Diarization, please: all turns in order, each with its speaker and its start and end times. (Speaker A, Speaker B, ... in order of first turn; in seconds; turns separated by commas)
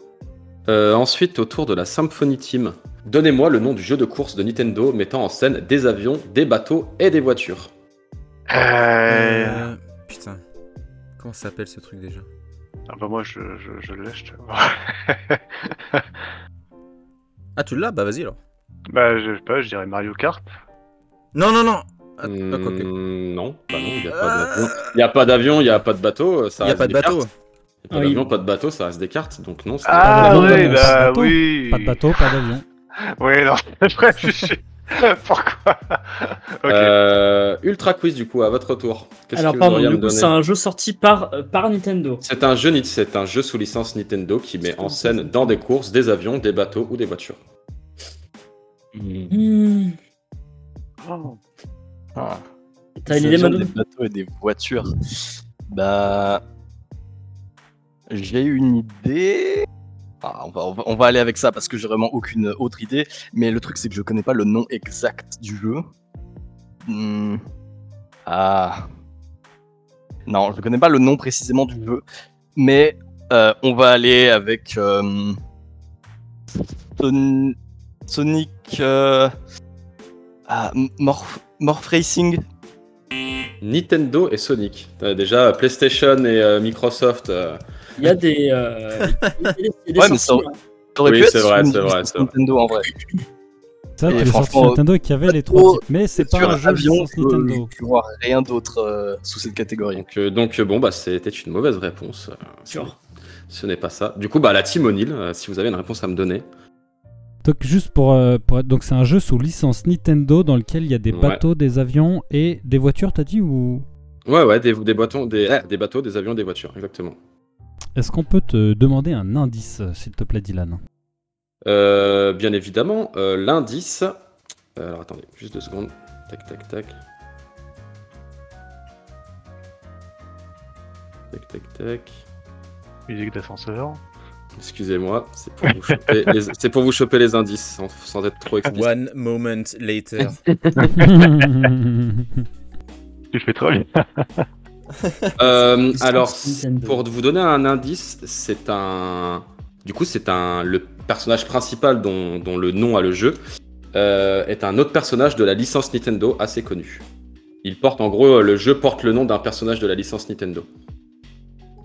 Speaker A: 0.7-7.7, Speaker B: 8.5-9.7, Speaker C: 9.1-10.4, Speaker C: 11.2-12.2, Speaker B: 12.9-16.0, Speaker C: 17.6-18.4, Speaker B: 18.9-20.5, Speaker C: 21.3-22.9, Speaker A: 22.2-27.2, Speaker C: 24.1-24.9, Speaker C: 26.6-27.3, Speaker A: 27.9-31.0, Speaker D: 27.9-28.3, Speaker B: 29.9-32.4, Speaker E: 30.0-32.6, Speaker B: 33.2-36.9, Speaker A: 36.6-40.3, Speaker D: 39.3-42.2, Speaker A: 42.2-47.4, Speaker D: 44.7-45.5, Speaker F: 48.9-49.3, Speaker D: 49.3-50.0, Speaker B: 51.0-51.4, Speaker F: 52.1-52.4, Speaker D: 53.0-53.7, Speaker F: 53.1-54.9, Speaker F: 55.7-56.4, Speaker F: 58.1-59.7, Speaker F: 60.2-65.8, Speaker F: 66.9-67.4, Speaker F: 68.2-68.9, Speaker F: 70.3-72.0, Speaker F: 72.5-75.4, Speaker F: 77.0-77.5, Speaker F: 78.1-79.3, Speaker F: 80.5-82.4, Speaker A: 83.6-87.6, Speaker D: 88.0-90.6, Speaker F: 90.0-92.9, Speaker A: 91.0-92.3, Speaker E: 94.0-97.7, Speaker F: 94.1-100.0, Speaker A: 99.9-102.9, Speaker D: 102.7-103.0, Speaker A: 103.5-106.4, Speaker E: 107.4-113.8, Speaker A: 111.1-111.4, Speaker A: 114.2-117.2, Speaker E: 118.0-120.8, Speaker A: 121.6-124.2, Speaker A: 124.8-126.9, Speaker A: 131.3-132.2, Speaker B: 133.1-134.0, Speaker A: 134.6-138.9, Speaker B: 135.7-136.3, Speaker C: 138.7-140.4, Speaker A: 140.5-140.9, Speaker B: 140.8-141.5, Speaker E: 140.9-142.4, Speaker B: 143.3-144.4, Speaker A: 145.4-153.4, Speaker D: 145.6-147.0, Speaker A: 153.9-157.0, Speaker A: 157.6-160.7